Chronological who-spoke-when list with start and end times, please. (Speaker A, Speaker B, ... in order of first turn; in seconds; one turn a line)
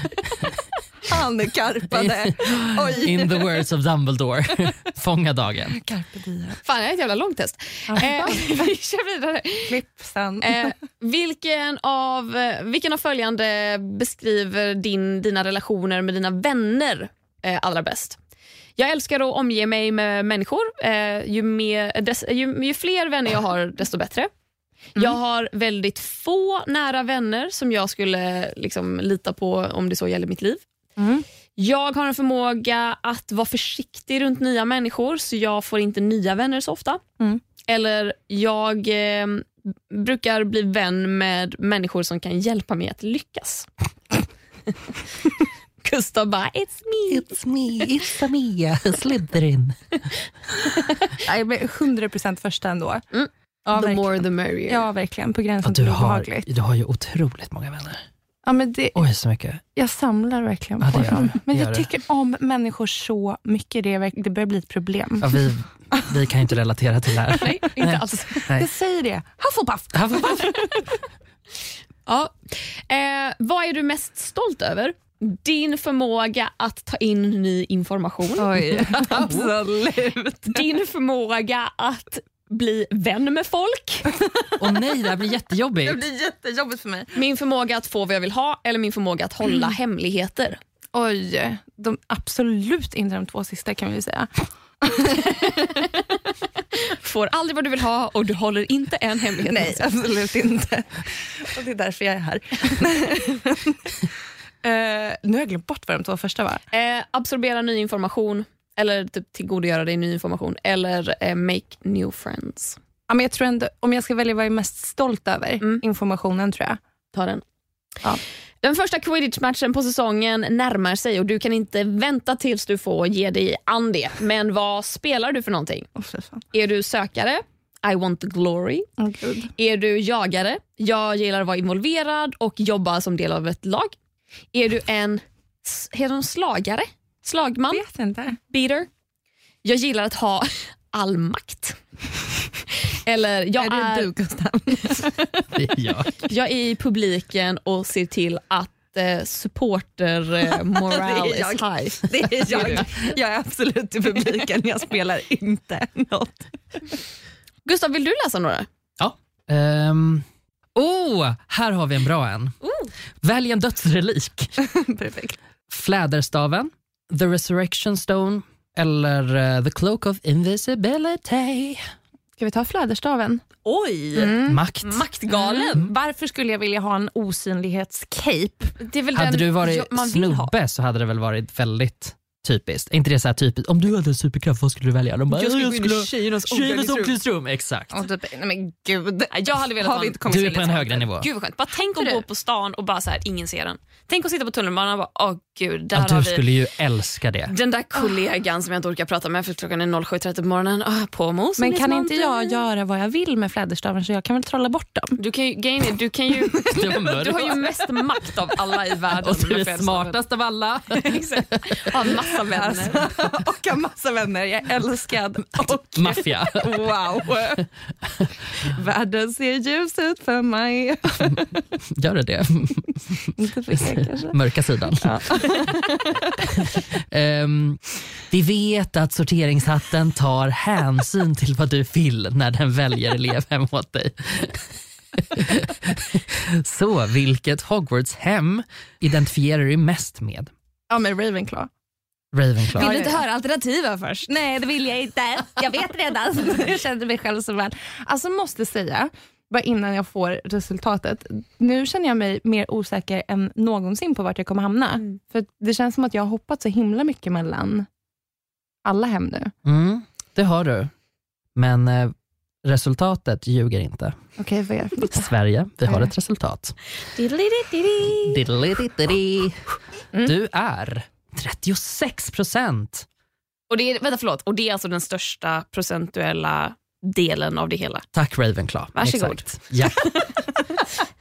Speaker A: 1.1-3.6
Speaker B: 1.9-5.8
Speaker A: 5.8-6.6
Speaker C: 6.6-9.8
Speaker A: 7.9-8.7
Speaker A: 9.7-10.7
Speaker C: 10.4-18.2
Speaker C: 18.8-24.3
Speaker C: 25.0-30.6
Speaker A: 31.0-31.2
Speaker C: 31.6-37.0
Speaker C: 37.7-43.7
Speaker C: 45.8-47.3
Speaker B: 47.1-49.8
Speaker A: 51.2-53.0
Speaker C: 53.1-54.9
Speaker A: 53.7-56.5
Speaker B: 55.6-58.0
Speaker A: 58.5-59.0
Speaker B: 59.0-59.6
Speaker A: 59.8-65.3
Speaker B: 60.8-61.9
Speaker B: 65.2-68.7
Speaker C: 67.4-68.5
Speaker A: 67.4-70.9
Speaker B: 69.9-70.5
Speaker C: 72.1-79.3
Speaker A: 78.4-80.7
Speaker C: 80.5-84.1
Speaker A: 84.1-84.5
Speaker B: 84.6-86.0
Speaker A: 85.8-87.1
Speaker C: 87.1-90.6
Speaker A: 90.9-94.3
Speaker A: 94.8-95.8
Speaker C: 95.2-95.8
Speaker C: 96.8-99.8
Speaker A: 99.5-104.0
Speaker A: 104.6-106.6
Speaker C: 106.7-112.8
Speaker A: 113.1-116.8
Speaker C: 117.1-117.4
Speaker C: 118.6-125.9
Speaker A: 126.0-126.4
Speaker C: 126.5-128.9
Speaker A: 129.0-129.5
Speaker C: 129.6-134.0
Speaker C: 134.5-137.8
Speaker A: 137.7-138.4
Speaker C: 138.5-138.9
Speaker C: 139.6-141.8
Speaker C: 142.9-144.1
Speaker A: 143.6-145.2
Speaker C: 144.9-145.1
Speaker B: 145.5-146.2
Speaker C: 146.2-152.9
Speaker A: 150.5-156.5
Speaker C: 157.7-158.7
Speaker B: 159.0-162.6
Speaker C: 162.6-162.9
Speaker B: 163.2-164.5
Speaker A: 164.6-165.4
Speaker B: 165.7-171.8
Speaker A: 172.4-173.5
Speaker C: 173.7-175.9
Speaker A: 174.2-174.6
Speaker B: 174.4-175.1
Speaker A: 175.5-178.7
Speaker C: 178.8-180.5
Speaker B: 179.2-188.0
Speaker C: 185.3-187.2
Speaker A: 187.9-190.9
Speaker C: 189.3-196.5
Speaker B: 190.2-191.3
Speaker A: 191.9-192.2
Speaker B: 195.9-197.5
Speaker C: 197.5-202.7
Speaker A: 201.6-205.2
Speaker C: 205.2-210.2
Speaker B: 206.7-207.7
Speaker B: 209.2-211.8
Speaker C: 210.9-213.1
Speaker A: 212.2-217.6
Speaker B: 215.6-216.8
Speaker A: 218.6-221.6
Speaker B: 221.2-225.4
Speaker A: 223.4-224.4
Speaker C: 225.0-225.8
Speaker A: 225.3-225.8
Speaker B: 226.5-240.5
Speaker A: 240.9-241.7
Speaker B: 242.3-243.0
Speaker A: 242.7-243.2
Speaker C: 242.8-244.3
Speaker A: 244.3-257.9
Speaker A: 258.9-259.5
Speaker B: 259.6-260.9
Speaker B: 261.6-264.2
Speaker A: 264.4-265.3
Speaker B: 265.1-266.8
Speaker C: 267.2-268.4
Speaker B: 268.1-269.6
Speaker B: 270.2-273.1
Speaker C: 273.7-278.1
Speaker B: 278.1-280.1
Speaker C: 278.9-280.3